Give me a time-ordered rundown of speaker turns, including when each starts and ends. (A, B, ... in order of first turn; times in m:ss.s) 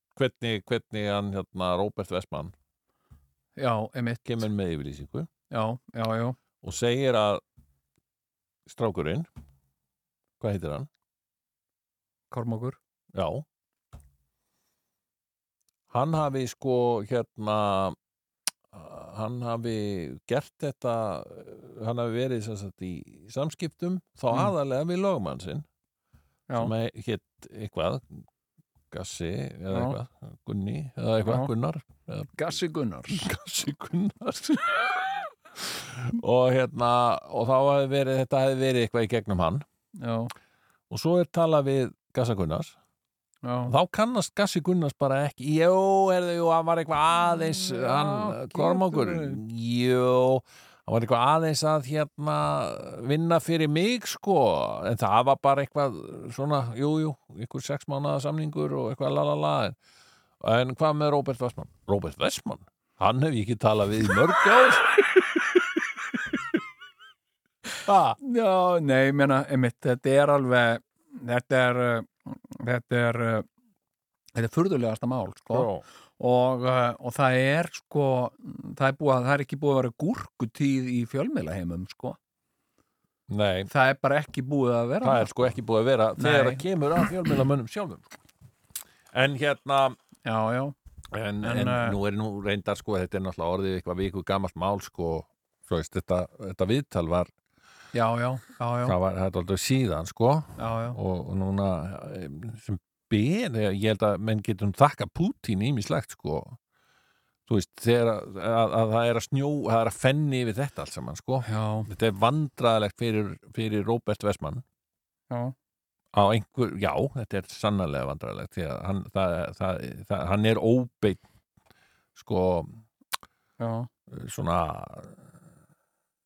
0:00.2-0:02.5 A
0:03.6-0:04.3 B
0:04.2-0:05.3 A
0:05.5-0:06.4 B
0:06.6-0:07.4 A
0:08.7-0:09.3 A
0:10.4-0:10.9 A
0:12.3-0:12.8 B
0:13.1-0:13.4 A
0:15.9-0:18.0 A
0:18.7-0:25.6 A
0:26.6-0:28.3 A
0:28.9-0:32.5 A
0:29.7-0:30.0 B
0:31.2-0:31.5 B
0:32.4-0:33.3 B
0:33.1-0:39.6 A
0:40.0-0:40.3 B
0:40.9-0:42.8 A
0:43.4-0:43.7 B
0:43.7-0:59.8 A
0:47.5-0:49.4 B
1:00.4-1:05.0 A
1:07.9-1:08.2 A
1:08.2-1:13.5 B
1:14.4-1:22.2 B
1:15.5-1:15.8 A
1:23.3-1:23.7 A
1:23.7-1:25.6 B
1:25.0-1:28.1 A
1:26.2-1:26.6 B
1:29.1-1:30.0 A
1:30.2-1:30.8 B
1:31.1-1:37.3 A
1:31.4-1:32.0 B
1:37.9-1:39.0 B
1:38.8-1:46.6 A
1:40.6-1:41.0 B
1:47.5-1:54.6 A
1:51.4-1:51.9 B
1:55.3-1:55.6 B
1:56.1-2:01.2 A
2:02.2-2:02.8 A
2:03.6-2:03.9 B
2:04.1-2:05.3 A